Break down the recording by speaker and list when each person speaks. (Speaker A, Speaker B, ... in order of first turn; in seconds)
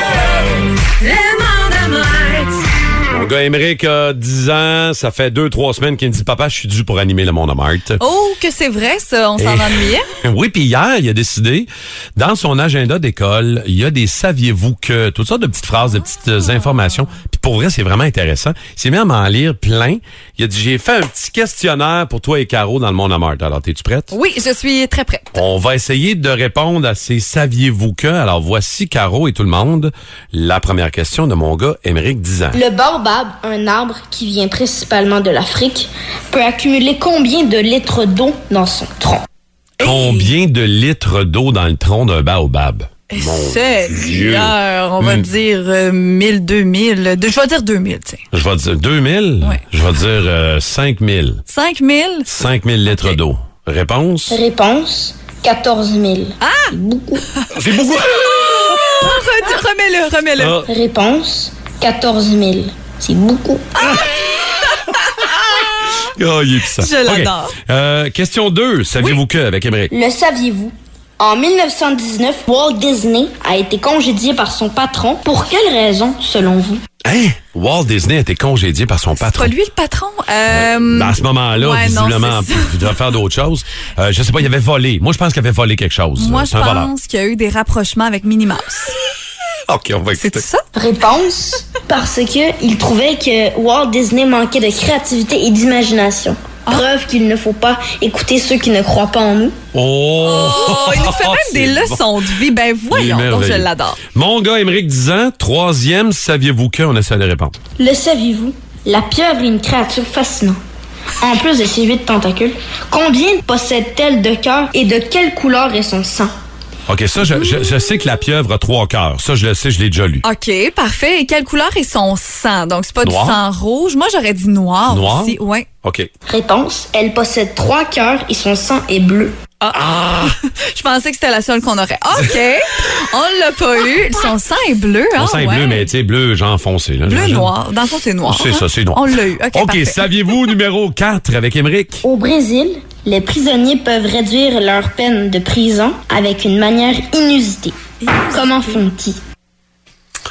Speaker A: 1.0-2.6, 8.0-10.1, 24.1-25.4, 39.8-40.3, 43.1-48.2, 51.5-52.3, 56.4-56.7, 58.2-60.6, 63.8-66.1, 66.7-67.5, 79.2-83.0, 86.2-89.0, 90.2-90.6, 100.2-104.0, 120.2-125.7, 129.6-135.9, 137.1-140.1, 148.0-148.8
Speaker B: 3.1-8.0, 9.4-24.1, 25.3-32.6, 39.8-45.3, 48.3-51.4, 52.3-54.4, 57.5-58.8, 60.4-60.7, 66.1-69.9, 77.0-79.5, 80.5-86.9, 89.7-90.4, 99.7-102.0, 102.9-107.5, 116.9-120.2, 123.0-123.4, 124.9-126.1, 135.2-137.5, 138.2-142.0
Speaker C: 32.5-39.2, 54.3-57.2, 60.6-63.6, 69.9-76.8, 90.7-99.5, 107.8-110.6, 111.2-116.3, 126.3-129.3, 142.0-147.7, 148.3-149.2